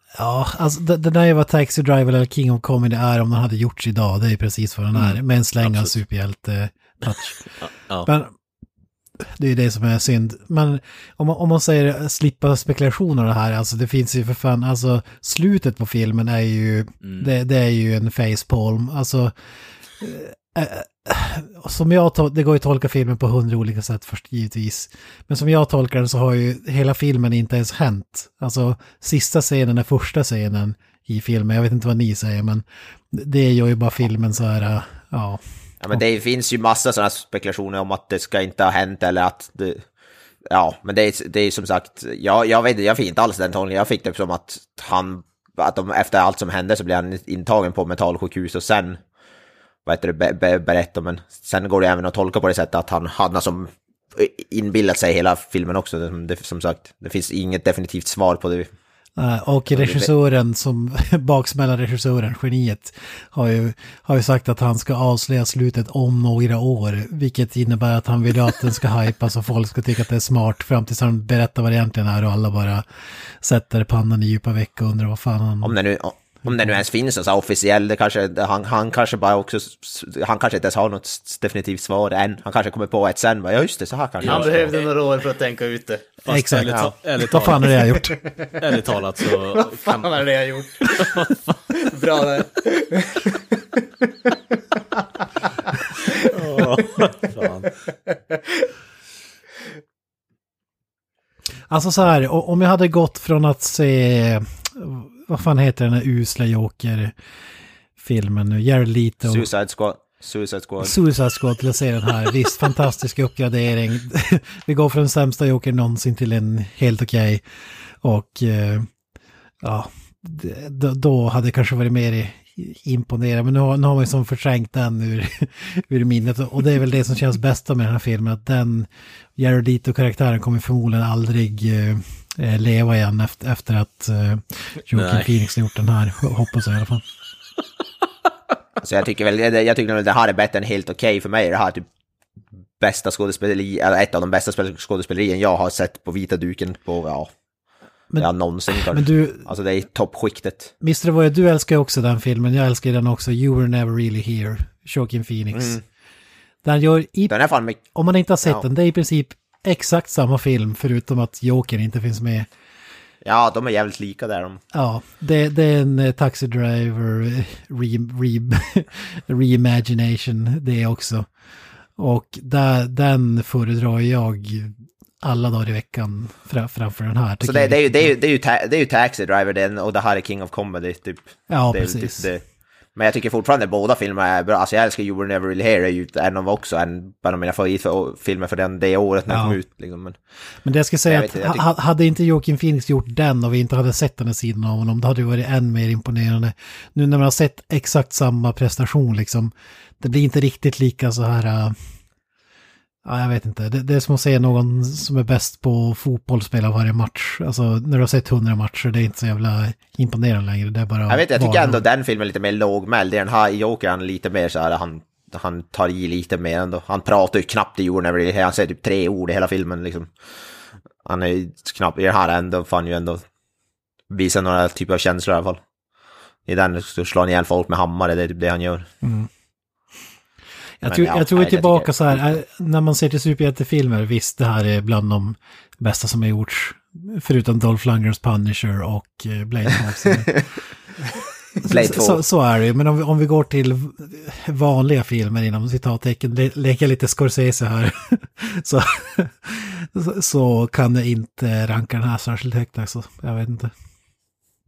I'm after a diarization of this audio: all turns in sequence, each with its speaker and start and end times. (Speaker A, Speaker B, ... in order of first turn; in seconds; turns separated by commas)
Speaker A: 0.2-7.3, Speaker B: 4.9-5.9, Speaker B: 7.0-8.1, Speaker A: 8.1-8.3, Speaker A: 9.2-19.3, Speaker B: 17.0-17.3, Speaker A: 20.0-35.4, Speaker C: 35.8-39.8, Speaker C: 40.5-49.0, Speaker C: 49.8-58.7, Speaker A: 59.2-72.8, Speaker C: 59.7-60.1, Speaker A: 73.4-75.7, Speaker C: 75.6-84.7, Speaker A: 76.4-76.8, Speaker B: 84.2-84.9, Speaker D: 84.2-86.1, Speaker B: 86.2-87.9, Speaker A: 86.3-88.1, Speaker C: 86.7-86.9, Speaker D: 87.9-96.7, Speaker B: 88.6-90.2, Speaker B: 90.8-91.6, Speaker B: 96.3-97.7, Speaker D: 98.1-98.7, Speaker A: 101.7-107.1, Speaker A: 108.0-109.5, Speaker C: 109.2-110.9, Speaker A: 110.8-117.4, Speaker A: 118.0-118.9, Speaker A: 119.6-137.0, Speaker B: 134.9-135.3, Speaker C: 138.8-141.8, Speaker C: 142.8-147.3, Speaker A: 148.1-149.5, Speaker C: 148.2-150.7, Speaker A: 150.8-155.8, Speaker C: 155.5-155.8, Speaker A: 156.6-157.4, Speaker C: 157.3-157.8, Speaker A: 157.9-162.5, Speaker C: 163.2-164.6, Speaker A: 164.7-171.3, Speaker A: 172.0-178.1, Speaker C: 177.4-182.4, Speaker A: 181.5-182.3, Speaker C: 182.9-190.2, Speaker A: 189.3-189.6, Speaker A: 190.6-201.8, Speaker C: 191.1-191.7, Speaker A: 203.0-211.8, Speaker C: 211.1-220.1, Speaker C: 221.0-223.2, Speaker C: 224.1-225.6, Speaker C: 226.5-228.9, Speaker A: 229.0-229.3, Speaker A: 230.8-240.4, Speaker C: 230.9-232.4, Speaker A: 241.6-253.7, Speaker C: 241.6-242.2